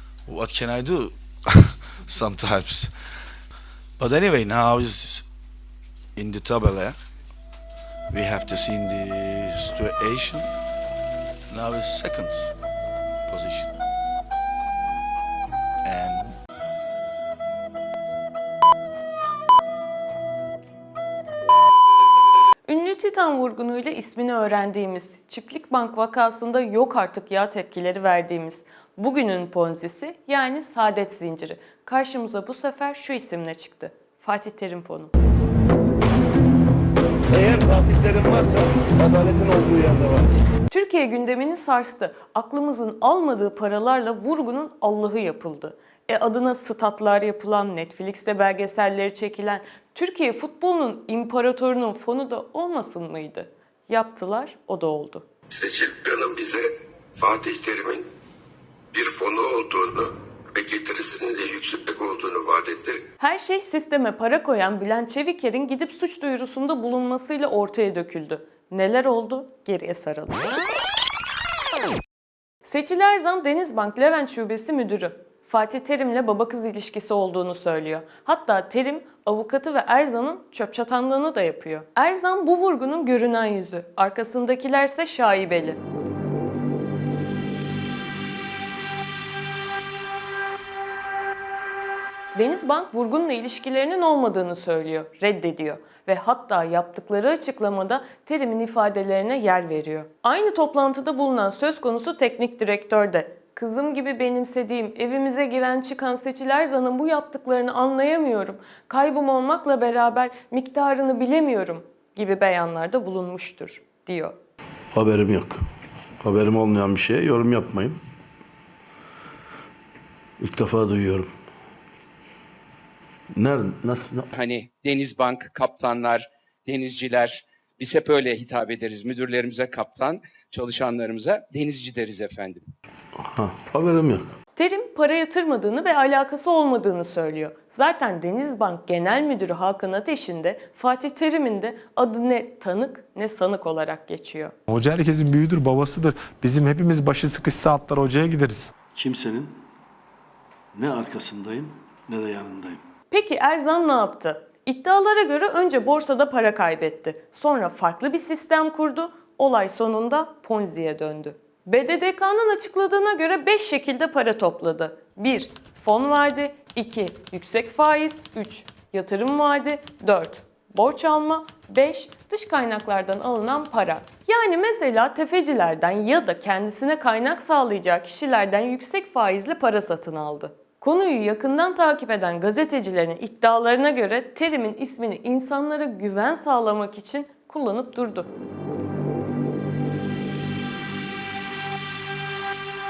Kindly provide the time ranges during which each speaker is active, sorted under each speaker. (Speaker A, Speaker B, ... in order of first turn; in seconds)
Speaker A: 0.3-2.9, 4.0-5.2, 6.2-7.0, 8.1-10.5, 11.5-12.5, 13.3-13.7, 15.8-16.4
Speaker B: 22.7-35.1, 40.7-55.3, 63.2-70.5, 72.6-85.8, 92.3-114.3, 134.6-144.5, 153.1-188.3
Speaker C: 37.5-40.3, 114.9-115.6, 116.2-118.0, 120.4-121.3, 123.3-124.3, 133.3-134.3, 149.0-149.5, 150.8-152.8
Speaker D: 55.5-58.0, 58.9-63.0
Speaker E: 124.3-132.7
Speaker F: 144.7-148.7